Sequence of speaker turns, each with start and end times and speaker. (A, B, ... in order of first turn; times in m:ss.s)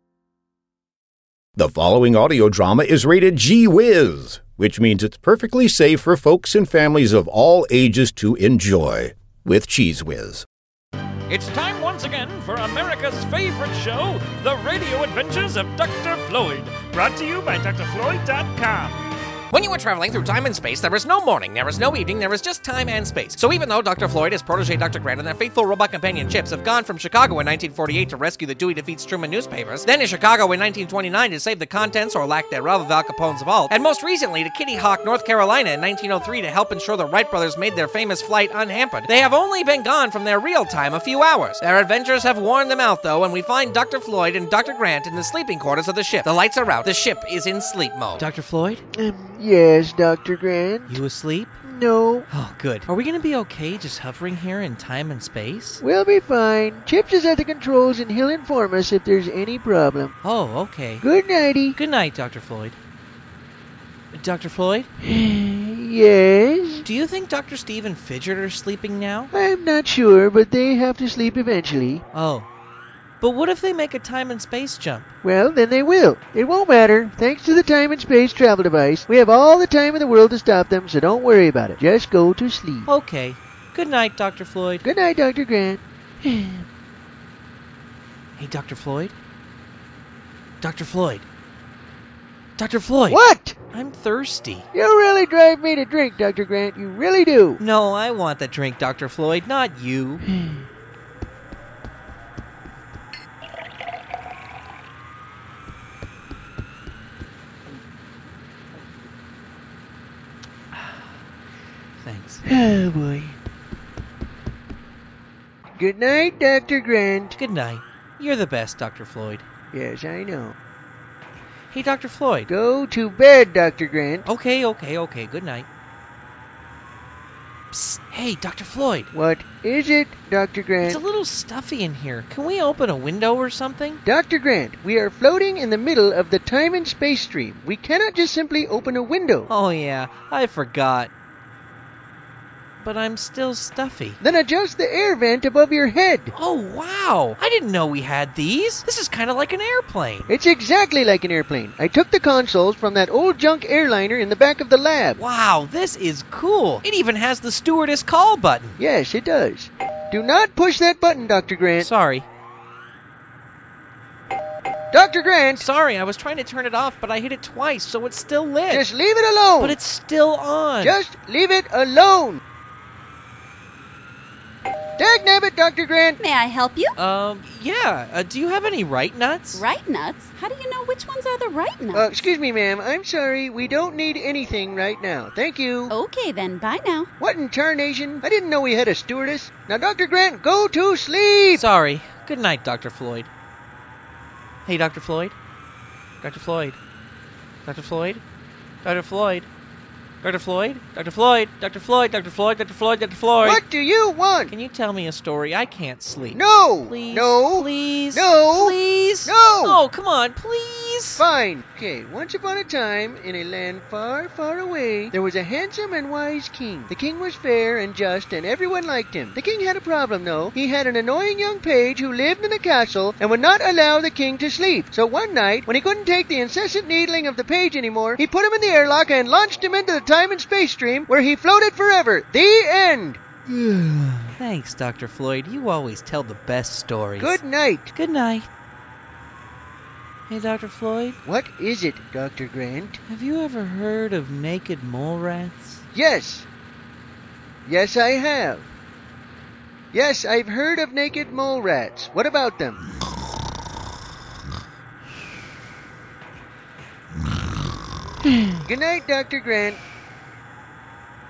0:01.6-0:10.5 A
0:11.3-0:19.0 B
0:19.5-0:48.8 C
0:48.9-0:51.0 D
0:50.9-0:51.6 C
0:51.6-0:52.3 D
0:52.3-0:55.8 C
0:55.8-1:00.1 D
1:00.2-1:01.1 C
1:01.0-1:01.8 D
1:01.7-1:02.8 C
1:04.1-1:04.9 C
1:05.0-1:06.8 D
1:06.8-1:09.3 C
1:09.3-1:12.0 D
1:12.1-1:12.5 C
1:13.2-1:15.1 C
1:15.2-1:22.9 D
1:22.9-1:24.8 C
1:24.8-1:26.7 D
1:28.4-1:29.1 C
1:30.6-1:31.2 C
1:32.6-1:33.2 C
1:33.1-1:33.6 D
1:33.7-1:34.7 C
1:34.7-1:37.6 D
1:37.6-1:40.2 C
1:40.3-1:40.7 D
1:52.0-1:52.4 C
1:52.4-1:53.4 D
1:55.8-1:57.4 D
1:57.3-1:59.4 C
1:59.7-2:00.6 D
2:01.7-2:02.5 C
2:02.5-2:04.3 D
2:04.2-2:05.7 C
2:07.7-2:09.1 C
2:09.1-2:11.0 D
2:10.8-2:14.0 C
2:14.0-2:19.5 D
2:19.5-2:21.1 C
2:22.8-2:24.2 C
2:24.2-2:26.3 D
2:26.3-2:30.3 C
2:30.3-2:35.2 D
2:35.2-2:38.8 C
2:38.8-2:41.9 D
2:41.8-2:42.3 C
2:44.9-2:45.7 D
2:45.6-2:48.9 C
2:48.7-2:49.8 D
2:49.6-2:51.0 C
2:50.8-2:52.4 D
2:55.0-2:56.2 D
2:56.2-2:57.0 E
2:57.0-2:59.6 C
2:59.6-3:02.3 E
3:01.9-3:05.9 D
3:05.9-3:07.1 E
3:07.2-3:11.7 D
3:11.5-3:13.3 C
3:14.7-3:15.3 C
3:16.2-3:16.8 C
3:17.6-3:18.2 C
3:18.8-3:19.5 C
3:20.2-3:23.6 C
3:23.4-3:24.5 D
3:24.5-3:31.2 C
3:26.3-3:29.8 D
3:31.2-3:53.2 D
3:53.5-3:57.4 C
3:57.2-3:57.9 D
3:57.9-3:58.5 C
4:00.3-4:01.2 C
4:01.2-4:03.0 D
4:03.1-4:05.8 C
4:05.9-4:06.5 D
4:07.6-4:08.7 D
4:09.9-4:12.8 D
4:18.6-4:19.8 D